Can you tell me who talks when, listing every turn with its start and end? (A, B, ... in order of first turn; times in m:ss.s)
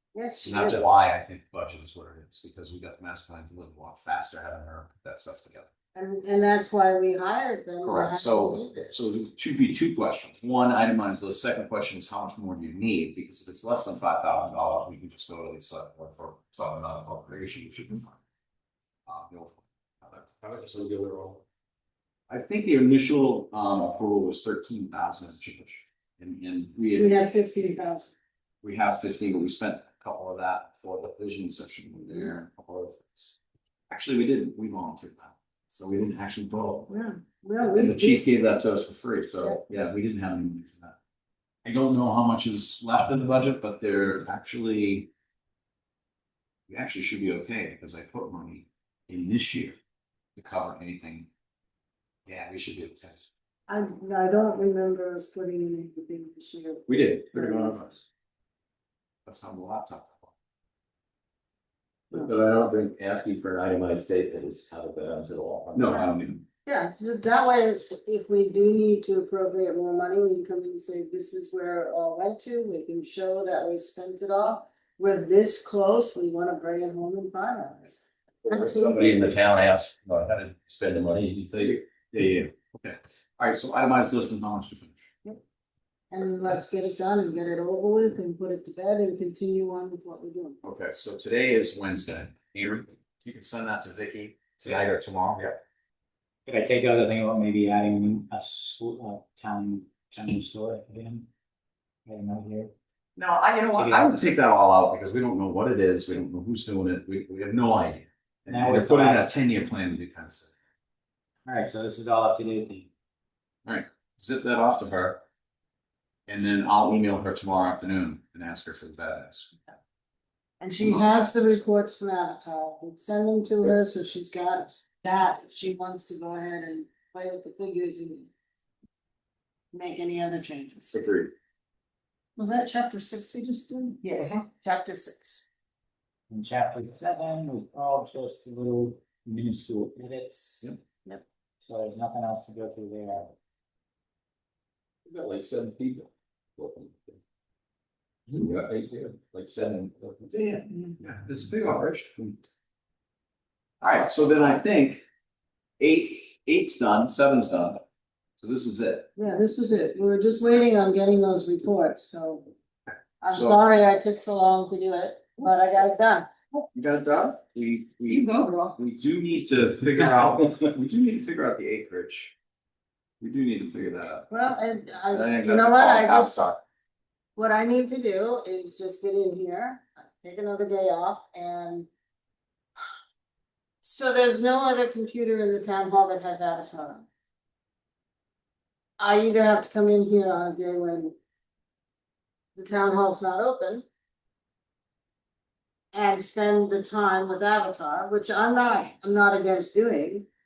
0:00.1-0:00.8 A
0:00.4-0:05.7 B
0:05.9-0:09.1 A
0:07.8-0:18.2 B
0:19.1-0:20.7 B
0:20.6-0:21.4 C
0:22.3-0:27.3 B
0:27.0-0:28.1 A
0:28.6-0:33.4 B
0:33.9-0:36.9 B
0:36.9-0:38.2 A
0:37.7-0:41.0 B
0:41.6-0:45.1 B
0:46.7-0:49.8 B
0:50.4-0:51.3 B
0:52.3-0:53.3 B
0:53.7-0:57.8 A
0:56.9-0:58.0 B
0:59.3-1:00.3 B
1:02.1-1:06.0 C
1:05.8-1:06.4 B
1:06.7-1:19.3 A
1:18.4-1:19.2 B
1:18.9-1:21.8 C
1:22.1-1:25.1 B
1:26.1-1:30.6 A
1:30.6-1:35.6 B
1:36.5-1:41.3 D
1:42.1-1:42.7 D
1:43.2-1:50.5 B
1:43.7-1:44.2 D
1:48.5-1:49.3 D
1:51.5-1:52.9 D
1:53.7-1:55.2 B
1:56.3-1:59.5 B
2:00.6-2:08.3 A
2:09.7-2:11.0 A
2:10.9-2:11.3 B
2:12.4-2:15.5 A
2:16.3-2:20.7 D
2:21.7-2:23.3 D
2:25.1-2:27.2 C
2:28.3-2:30.4 C
2:30.3-2:32.2 B
2:33.8-2:35.0 B
2:35.8-2:37.8 B
2:38.4-2:39.1 B
2:39.2-2:42.5 A
2:43.2-2:46.3 A
2:43.3-2:43.6 B
2:46.7-2:52.3 B
2:53.2-2:54.3 B
2:54.3-2:56.4 A
2:55.1-2:56.6 B
2:57.4-3:01.9 A
3:03.8-3:07.1 A
3:09.0-3:11.2 A
3:12.6-3:13.9 A
3:15.9-3:20.3 A